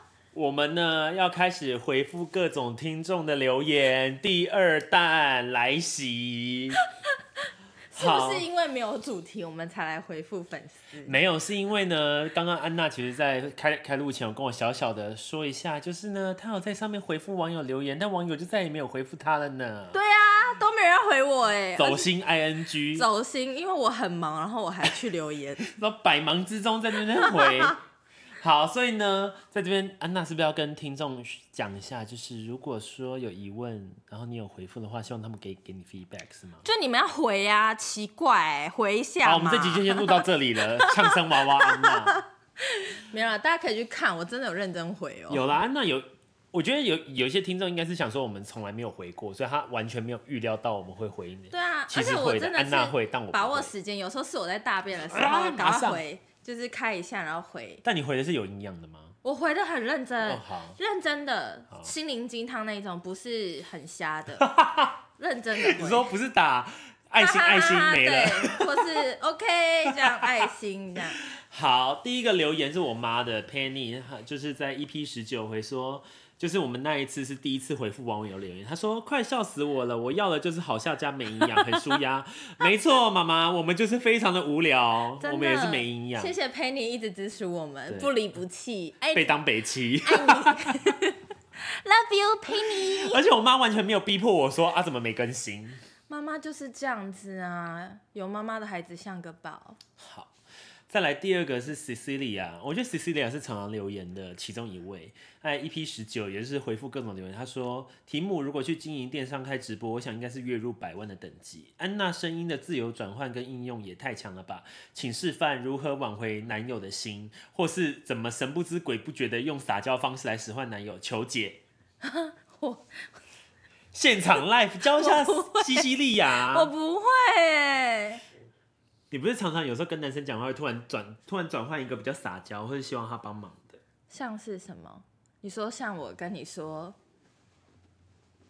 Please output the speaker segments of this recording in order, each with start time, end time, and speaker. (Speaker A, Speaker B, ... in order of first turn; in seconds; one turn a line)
Speaker A: 0.3-6.8
Speaker B: 7.9-11.2
Speaker A: 7.9-8.4
Speaker A: 11.1-20.0
Speaker B: 19.9-22.1
Speaker A: 21.8-23.1
Speaker B: 22.9-25.7
Speaker A: 25.6-27.8
Speaker B: 27.2-27.7
Speaker A: 28.4-36.6
Speaker B: 36.6-40.2
Speaker A: 39.2-42.2
Speaker B: 40.8-45.5
Speaker A: 45.3-53.7
Speaker B: 51.5-57.8
Speaker A: 55.1-56.0
Speaker A: 57.8-59.1
Speaker B: 59.2-64.5
Speaker A: 60.2-60.8
Speaker A: 64.4-65.0
Speaker B: 65.2-66.1
Speaker A: 65.6-69.0
Speaker B: 67.2-71.2
Speaker A: 69.8-70.5
Speaker A: 71.2-86.3
Speaker B: 81.4-81.8
Speaker B: 85.2-89.3
Speaker A: 89.1-90.7
Speaker B: 90.0-93.2
Speaker A: 92.5-95.8
Speaker B: 96.1-99.8
Speaker A: 100.0-100.3
Speaker A: 100.9-121.6
Speaker B: 122.0-123.0
Speaker A: 123.9-126.7
Speaker B: 124.9-128.2
Speaker A: 129.1-133.8
Speaker B: 134.1-136.9